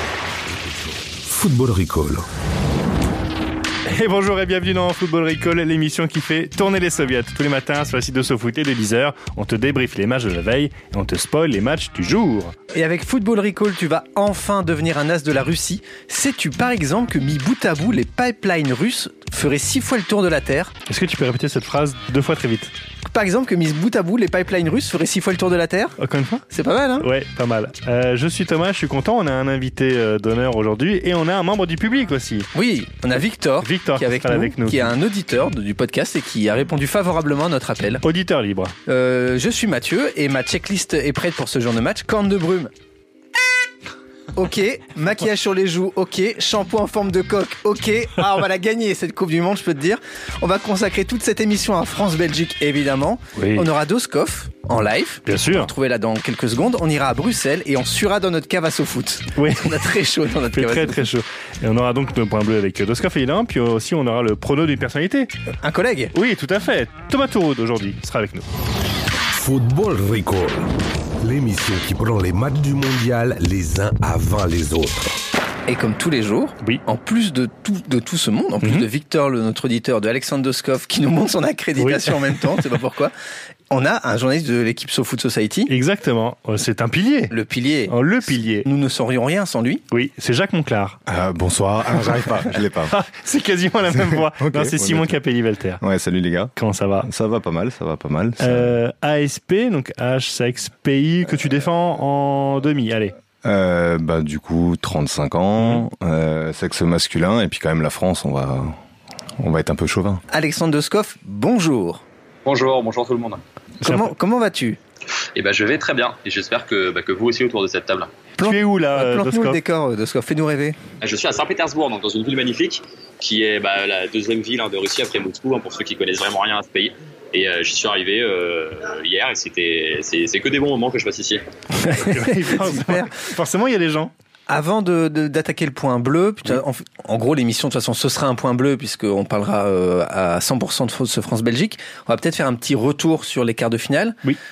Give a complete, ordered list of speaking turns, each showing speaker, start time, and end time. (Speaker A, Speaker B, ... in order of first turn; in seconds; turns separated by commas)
Speaker A: 0.5-2.2, Speaker B: 3.9-12.5, Speaker C: 12.7-20.7, Speaker B: 20.9-22.7, Speaker C: 23.1-25.9, Speaker B: 26.0-26.5, Speaker C: 26.5-27.1, Speaker B: 27.0-32.5, Speaker C: 32.5-38.0, Speaker B: 33.6-35.0, Speaker B: 38.0-38.7, Speaker C: 38.9-42.7, Speaker C: 44.3-61.0, Speaker B: 53.4-53.7, Speaker B: 55.2-55.7, Speaker B: 59.4-59.7, Speaker B: 60.5-65.3, Speaker C: 65.6-66.1, Speaker B: 66.1-68.5, Speaker A: 69.3-70.7, Speaker A: 71.2-75.2, Speaker C: 75.7-83.1, Speaker B: 78.6-78.9, Speaker B: 81.8-82.1, Speaker C: 83.7-85.7, Speaker B: 85.7-87.3, Speaker C: 87.3-87.9, Speaker B: 87.9-88.7, Speaker C: 88.6-89.8, Speaker B: 89.9-91.0, Speaker D: 91.1-92.9, Speaker B: 92.9-95.8, Speaker D: 93.9-95.2, Speaker D: 95.8-96.5, Speaker B: 96.5-97.1, Speaker D: 97.0-98.8, Speaker B: 98.4-103.1, Speaker D: 103.4-108.8, Speaker D: 109.4-110.2, Speaker C: 110.3-112.0, Speaker E: 112.4-113.4, Speaker B: 113.8-114.1, Speaker C: 113.8-114.8, Speaker E: 115.3-118.1, Speaker C: 118.4-120.8, Speaker B: 118.4-119.6, Speaker E: 121.0-131.4, Speaker C: 131.8-133.1, Speaker B: 131.9-134.1, Speaker C: 134.5-144.2